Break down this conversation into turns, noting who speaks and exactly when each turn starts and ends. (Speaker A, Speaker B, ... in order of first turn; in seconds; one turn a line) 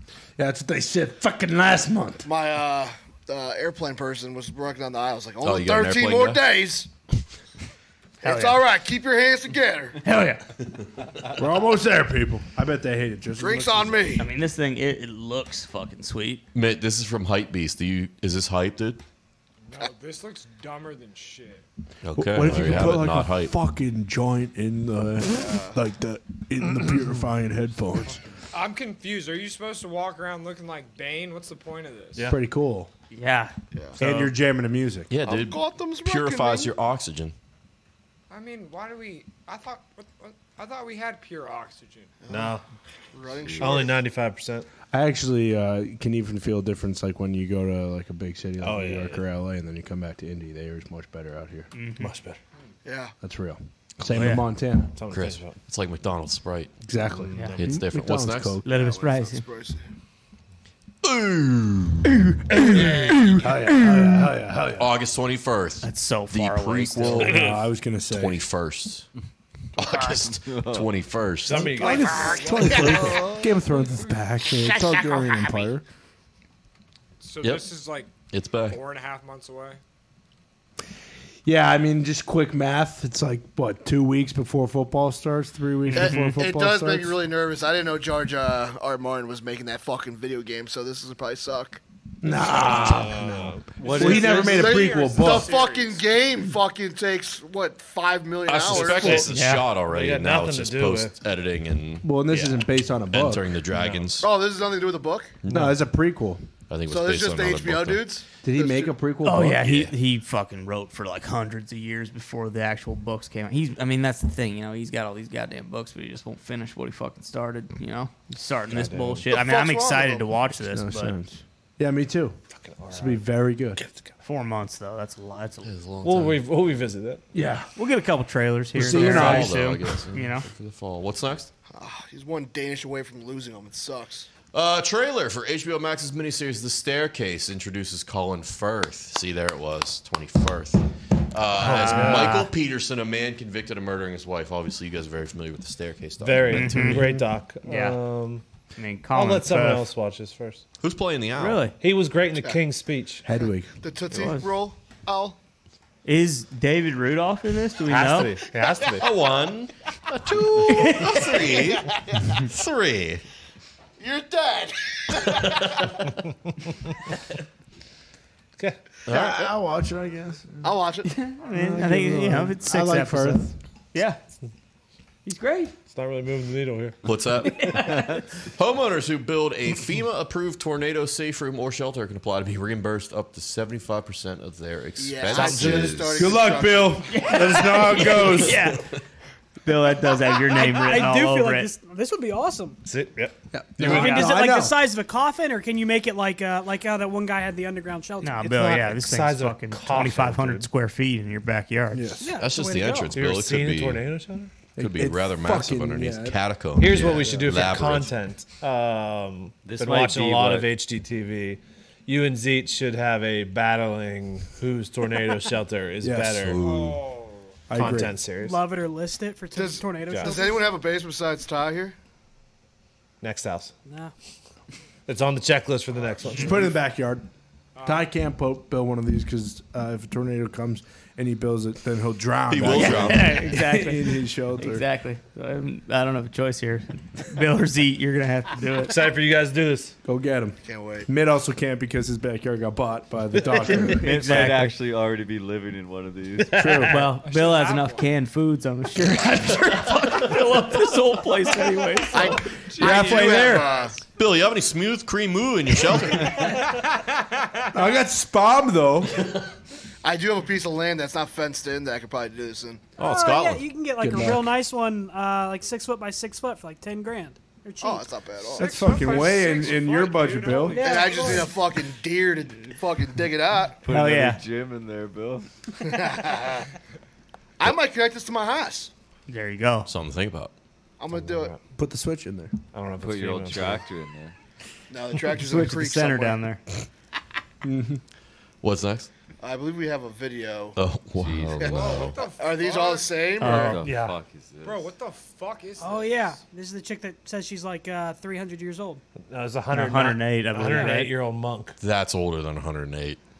Speaker A: 0.4-2.3
Speaker B: 2.2-6.9
Speaker C: 5.4-6.4
Speaker B: 8.2-10.0
Speaker D: 8.2-8.6
Speaker D: 10.1-10.4
Speaker A: 11.3-14.2
Speaker B: 13.4-14.3
Speaker D: 14.2-16.4
Speaker C: 16.5-19.0
Speaker E: 19.7-21.6
Speaker C: 22.0-23.5
Speaker A: 22.1-28.2
Speaker B: 25.4-25.7
Speaker E: 28.5-32.3
Speaker A: 32.2-32.9
Speaker D: 33.1-33.5
Speaker A: 34.0-35.1
Speaker F: 34.0-34.3
Speaker C: 35.1-37.3
Speaker B: 35.2-36.7
Speaker E: 38.3-42.1
Speaker B: 42.3-42.6
Speaker F: 42.3-42.6
Speaker B: 43.1-44.0
Speaker F: 43.6-44.7
Speaker A: 44.9-51.7
Speaker F: 48.6-49.2
Speaker D: 51.7-52.1
Speaker F: 52.0-52.4
Speaker B: 52.9-53.1
Speaker A: 53.2-54.9
Speaker D: 54.1-54.4
Speaker F: 55.0-55.6
Speaker C: 55.1-56.7
Speaker A: 56.9-58.6
Speaker F: 57.0-57.8
Speaker C: 57.6-58.6
Speaker D: 58.6-59.5
Speaker B: 58.6-59.8
Speaker C: 61.0-62.1
Speaker D: 62.3-63.2
Speaker F: 62.5-63.3
Speaker A: 63.3-64.9
Speaker C: 64.8-67.5
Speaker D: 65.8-67.4
Speaker A: 67.2-68.4
Speaker C: 68.1-69.1
Speaker C: 69.8-71.7
Speaker G: 70.0-70.9
Speaker F: 71.4-72.9
Speaker A: 71.5-75.8
Speaker E: 71.7-73.3
Speaker E: 77.2-78.1
Speaker C: 77.4-77.7
Speaker C: 78.3-78.8
Speaker E: 78.7-79.8
Speaker A: 81.5-87.2
Speaker D: 85.9-86.4
Speaker B: 85.9-91.8
Speaker A: 92.2-95.6
Speaker F: 92.5-94.7
Speaker B: 93.9-99.3
Speaker E: 93.9-96.1
Speaker C: 98.5-104.3
Speaker F: 98.7-101.2
Speaker D: 99.3-99.7
Speaker A: 102.0-103.5
Speaker F: 103.7-104.1
Speaker B: 104.2-105.4
Speaker C: 105.4-105.7
Speaker A: 105.5-106.4
Speaker C: 106.7-108.1
Speaker B: 106.9-109.0
Speaker A: 108.4-109.8
Speaker D: 109.2-121.2
Speaker C: 109.6-109.9
Speaker F: 118.7-119.3
Speaker B: 119.3-120.4
Speaker A: 120.7-122.4
Speaker F: 122.6-123.2
Speaker A: 122.9-123.8
Speaker F: 123.8-124.1
Speaker D: 124.2-125.7
Speaker C: 125.6-126.4
Speaker F: 126.0-127.2
Speaker A: 127.3-127.7
Speaker D: 127.8-130.5
Speaker A: 128.7-129.7
Speaker C: 128.8-131.5
Speaker B: 131.7-134.3
Speaker C: 134.5-147.2
Speaker F: 141.6-142.5
Speaker D: 141.6-142.5
Speaker F: 146.2-148.4
Speaker D: 146.5-147.1
Speaker D: 147.6-148.0
Speaker D: 148.8-149.9
Speaker F: 149.1-150.6
Speaker C: 150.8-151.7
Speaker D: 151.4-151.7
Speaker F: 151.8-153.2
Speaker A: 153.2-153.7
Speaker B: 153.8-155.4
Speaker D: 154.1-154.5
Speaker D: 156.1-158.3
Speaker F: 157.9-159.7
Speaker C: 159.0-163.2
Speaker D: 160.7-161.7
Speaker B: 164.0-166.0
Speaker C: 169.1-169.4
Speaker A: 169.1-170.8
Speaker B: 169.1-169.5
Speaker B: 170.6-171.1
Speaker D: 171.1-174.2
Speaker A: 171.5-173.6
Speaker D: 175.2-175.7
Speaker F: 175.9-177.0
Speaker C: 177.0-178.0
Speaker D: 177.4-178.2
Speaker C: 178.6-186.4
Speaker B: 185.0-187.6
Speaker F: 185.3-185.8
Speaker G: 185.4-185.7
Speaker A: 185.8-188.8
Speaker D: 187.1-188.8
Speaker D: 189.6-191.7
Speaker H: 190.5-192.8
Speaker F: 192.9-193.4
Speaker A: 193.5-194.8
Speaker C: 193.8-194.5
Speaker H: 193.8-198.5
Speaker D: 198.2-202.2
Speaker F: 198.5-200.7
Speaker A: 201.9-202.3
Speaker H: 202.2-203.2
Speaker C: 202.4-204.1
Speaker F: 203.2-204.5
Speaker A: 204.8-206.4
Speaker C: 204.8-208.1
Speaker F: 206.8-216.7
Speaker A: 207.0-207.7
Speaker G: 209.6-210.7
Speaker A: 216.0-216.9
Speaker E: 216.6-217.5
Speaker C: 216.6-217.0
Speaker A: 217.7-218.2
Speaker F: 217.7-218.6
Speaker H: 218.3-220.8
Speaker B: 219.5-221.9
Speaker F: 220.1-220.4
Speaker F: 223.2-223.7
Speaker H: 223.9-224.1
Speaker F: 225.1-226.8
Speaker A: 226.3-227.3
Speaker E: 227.8-228.1
Speaker A: 227.8-234.8
Speaker C: 232.5-233.4
Speaker D: 232.7-239.0
Speaker F: 238.9-240.0
Speaker A: 240.0-244.1
Speaker B: 240.6-241.1
Speaker D: 243.6-244.7
Speaker G: 244.0-246.8
Speaker F: 246.4-247.1
Speaker A: 246.5-246.9
Speaker D: 246.9-253.7
Speaker E: 247.2-248.1
Speaker B: 252.1-254.0
Speaker E: 252.1-254.0
Speaker C: 254.2-256.6
Speaker E: 256.2-257.5
Speaker A: 257.7-259.2
Speaker B: 260.0-262.8
Speaker C: 263.0-263.7
Speaker H: 263.0-268.1
Speaker A: 264.0-264.6
Speaker B: 267.8-269.0
Speaker E: 268.5-271.4
Speaker A: 268.6-270.9
Speaker H: 270.7-271.6
Speaker B: 270.8-273.8
Speaker G: 273.8-275.5
Speaker D: 273.9-274.4
Speaker B: 275.8-276.7
Speaker B: 277.6-278.9
Speaker D: 279.3-279.9
Speaker C: 279.9-280.5
Speaker B: 281.0-281.6
Speaker F: 281.1-281.6
Speaker A: 281.8-282.5
Speaker F: 282.7-283.9
Speaker G: 283.0-284.4
Speaker B: 284.9-286.4
Speaker D: 285.4-286.6
Speaker A: 287.6-288.0
Speaker C: 288.6-289.1
Speaker B: 289.4-290.8
Speaker C: 290.8-292.2
Speaker G: 291.2-292.1
Speaker B: 291.6-293.9
Speaker E: 291.6-293.3
Speaker G: 293.4-294.9
Speaker D: 293.4-293.8
Speaker F: 293.5-294.2
Speaker E: 294.6-296.3
Speaker H: 295.8-299.0
Speaker F: 299.3-301.8
Speaker D: 299.7-301.1
Speaker C: 301.8-303.2